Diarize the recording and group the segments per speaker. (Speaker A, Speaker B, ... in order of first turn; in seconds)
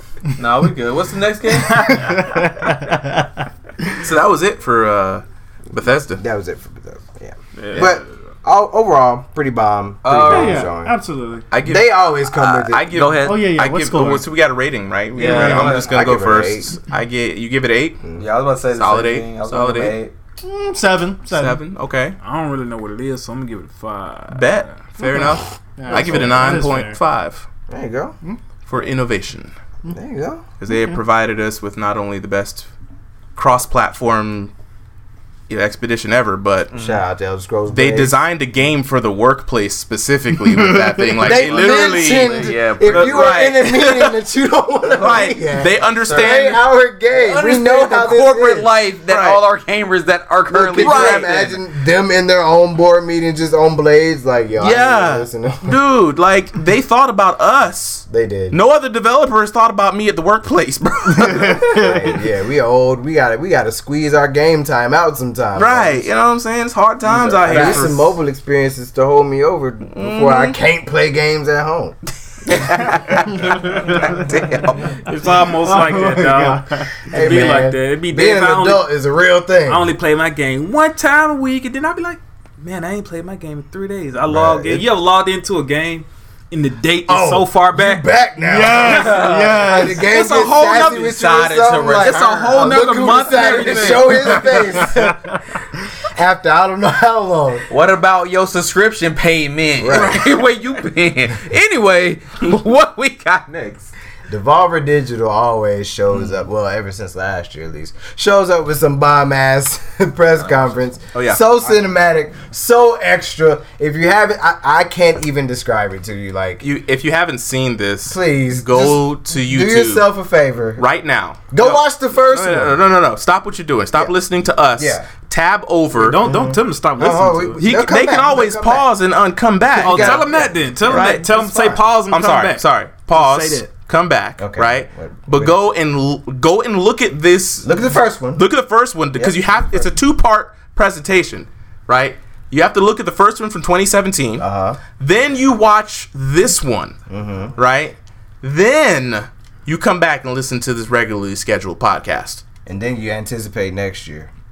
Speaker A: 0.4-2.2, 10.0-10.7, 12.3-13.5, 15.3-16.0, 18.2-20.1, 36.7-37.0, 41.4-43.4, 46.0-46.5, 47.1-51.6, 67.2-67.9, 88.8-89.9, 90.8-92.5, 97.7-103.9, 110.4-110.7
Speaker B: 1.9-3.3, 10.2-11.5, 13.2-14.2, 15.2-15.8, 20.4-21.6, 25.8-27.0, 30.7-31.0, 40.5-41.0, 61.3-62.1, 73.9-74.2, 75.6-77.1, 88.4-90.1, 94.9-95.1
Speaker C: 4.0-6.2, 7.7-8.0, 11.5-11.9, 12.5-18.0, 18.8-20.0, 21.3-22.2, 24.3-27.5, 28.7-29.5, 30.6-32.7, 33.4-34.5, 35.5-36.7, 37.7-44.2, 44.9-46.6, 49.1-49.4, 50.8-51.3, 54.6-61.9, 65.5-68.2, 69.9-70.6, 72.5-75.4, 90.0-94.8, 111.1-111.4, 116.6-120.1, 120.8-126.2, 127.6-131.3, 132.0-147.0, 147.6-152.4
Speaker D: 6.2-10.9, 11.6-12.9, 15.3-16.7, 27.7-28.2, 29.9-30.4, 36.7-38.1, 41.2-48.7, 50.5-55.8, 58.1-58.6, 61.4-66.1, 67.4-72.0, 77.1-79.9, 84.3-84.9, 87.1-95.2, 96.1-97.7, 99.8-100.3, 104.3-116.6, 118.1-120.8, 121.5-122.8, 124.8-125.1, 126.2-128.9, 129.7-131.8, 134.4-135.6, 137.6-138.4, 139.2-139.9, 144.4-144.8, 147.1-147.6, 152.7-154.3
Speaker E: 7.6-8.0, 22.2-24.8, 75.0-78.8, 79.7-88.0, 92.7-94.4, 125.9-127.6, 129.8-133.7